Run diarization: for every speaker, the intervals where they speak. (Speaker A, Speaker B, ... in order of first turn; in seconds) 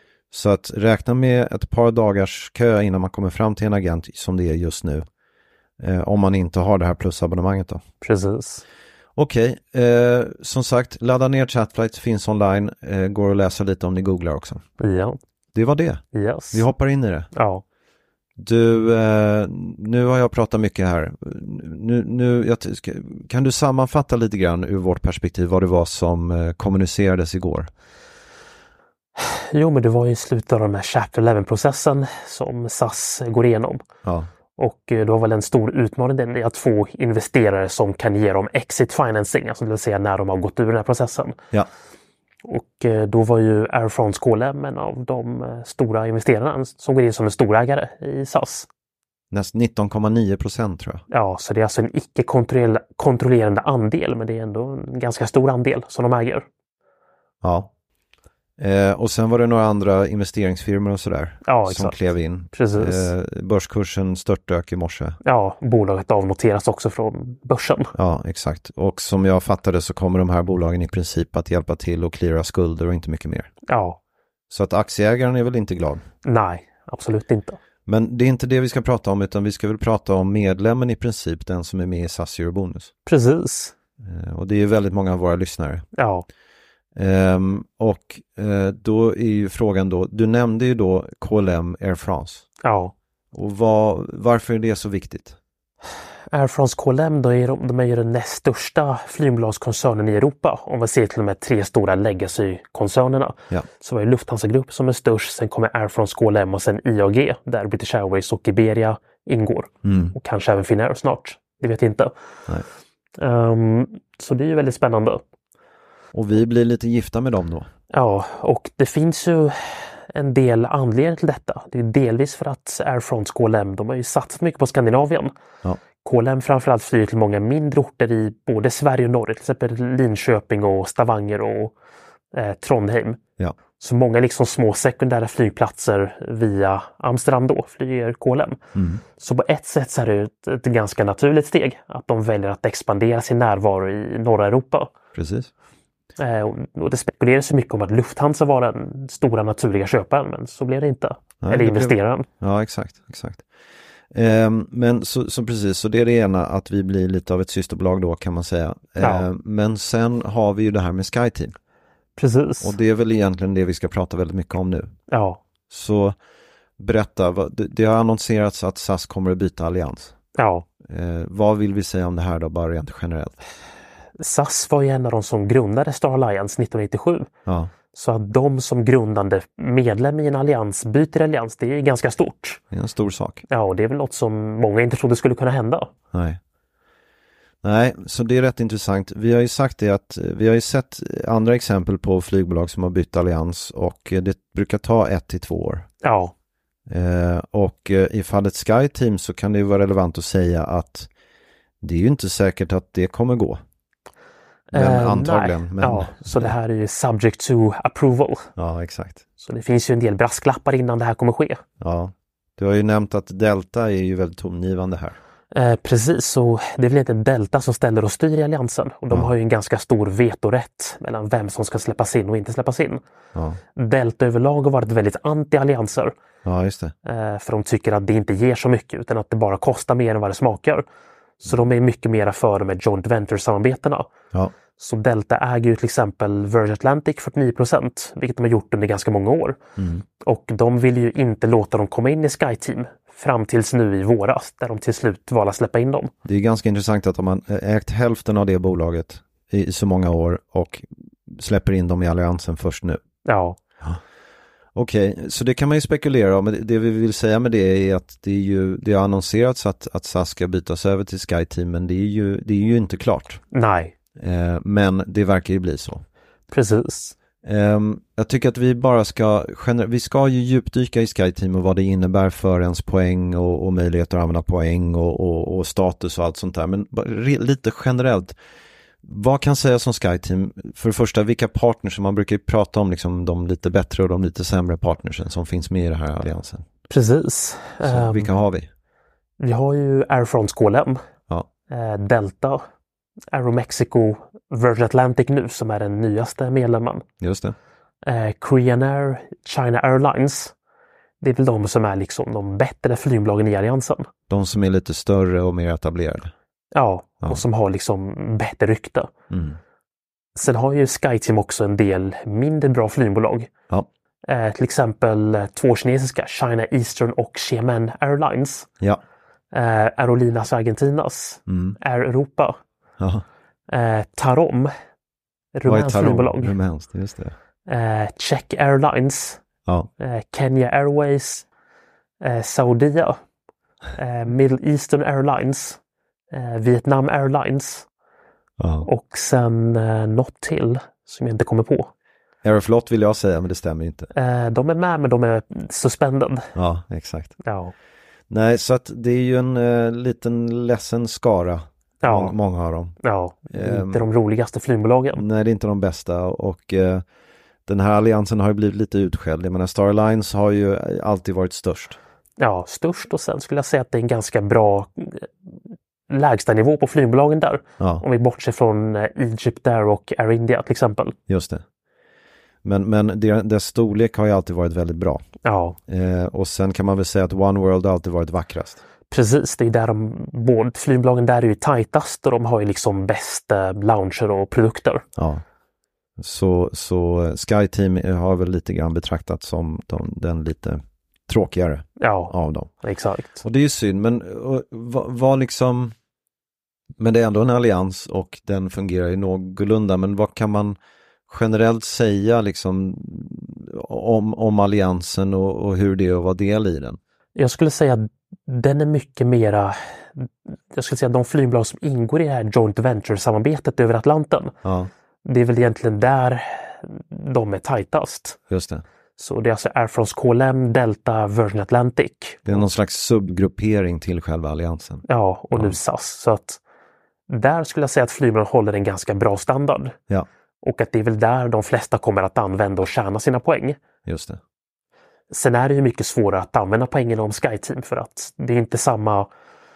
Speaker A: 0.3-5.0, 5.8-7.8, 9.2-14.6, 15.5-17.3, 18.4-27.7, 34.0-34.3, 49.3-51.0, 57.4-57.7, 58.6-65.2, 68.0-73.5, 74.5-76.0, 77.8-82.9, 84.0-85.8, 86.9-92.4, 93.3-95.4, 109.8-110.2, 116.1-117.7, 138.7-139.0, 145.2-145.5, 151.4-153.4, 154.1-161.5, 162.6-164.9, 165.7-166.2, 166.8-170.1, 170.8-173.3, 177.5-177.7, 182.7-183.4, 186.1-186.4, 187.6-195.9, 196.9-201.1, 201.8-203.6, 204.7-206.5, 208.6-209.2, 211.8-215.2, 223.3-223.6, 226.4-226.9, 239.8-240.0, 246.2-253.0, 254.7-263.4, 264.2-266.0, 267.4-278.4, 279.0-286.6, 287.8-288.7, 297.2-297.6, 304.3-306.3, 309.3-309.6, 321.5-321.8, 323.0-323.2, 325.6-327.3, 338.6-338.9, 342.4-344.1, 346.6-347.4, 348.3-352.9, 353.5-354.0, 355.1-357.0, 357.7-362.0, 371.3-371.6, 372.6-375.2, 375.9-378.8, 385.2-385.4, 386.2-392.7, 393.4-395.9, 397.0-400.8, 401.3-407.0, 414.6-414.9, 418.5-418.8, 422.4-425.8, 434.1-434.4
Speaker B: 8.0-8.6, 14.8-15.2, 16.1-16.6, 17.3-17.6, 29.2-33.8, 34.6-41.4, 42.4-48.7, 51.1-56.5, 61.4-61.9, 62.5-63.1, 65.2-67.9, 73.7-74.0, 76.2-77.6, 83.0-83.7, 86.0-86.2, 92.6-92.9, 96.3-112.1, 113.2-115.2, 117.9-125.3, 126.0-131.7, 132.3-133.2, 133.8-138.6, 139.2-144.9, 146.2-152.3, 159.0-159.2, 162.2-162.7, 165.1-165.4, 170.3-170.7, 174.2-177.3, 177.9-182.6, 183.5-185.9, 196.0-196.3, 204.7-208.5, 209.4-211.6, 215.5-223.0, 223.8-226.1, 227.1-230.8, 231.4-234.1, 234.8-239.6, 240.2-246.1, 253.2-253.6, 263.5-263.9, 266.5-267.1, 286.9-288.3, 289.4-291.0, 291.7-292.6, 293.3-297.0, 298.0-300.5, 301.2-304.1, 306.7-309.1, 310.4-313.5, 314.2-318.7, 319.5-322.6, 323.7-324.7, 325.5-326.5, 327.7-329.4, 330.0-331.4, 332.2-333.2, 333.9-335.8, 336.3-337.9, 338.8-341.9, 344.1-346.5, 347.4-347.7, 352.0-352.3, 353.0-355.2, 362.4-365.3, 366.1-371.1, 375.4-375.8, 379.1-385.0, 392.0-393.4, 407.4-414.5, 415.2-418.4, 419.2-422.6, 425.1-426.6, 427.3-429.9, 430.6-433.8, 435.3-439.3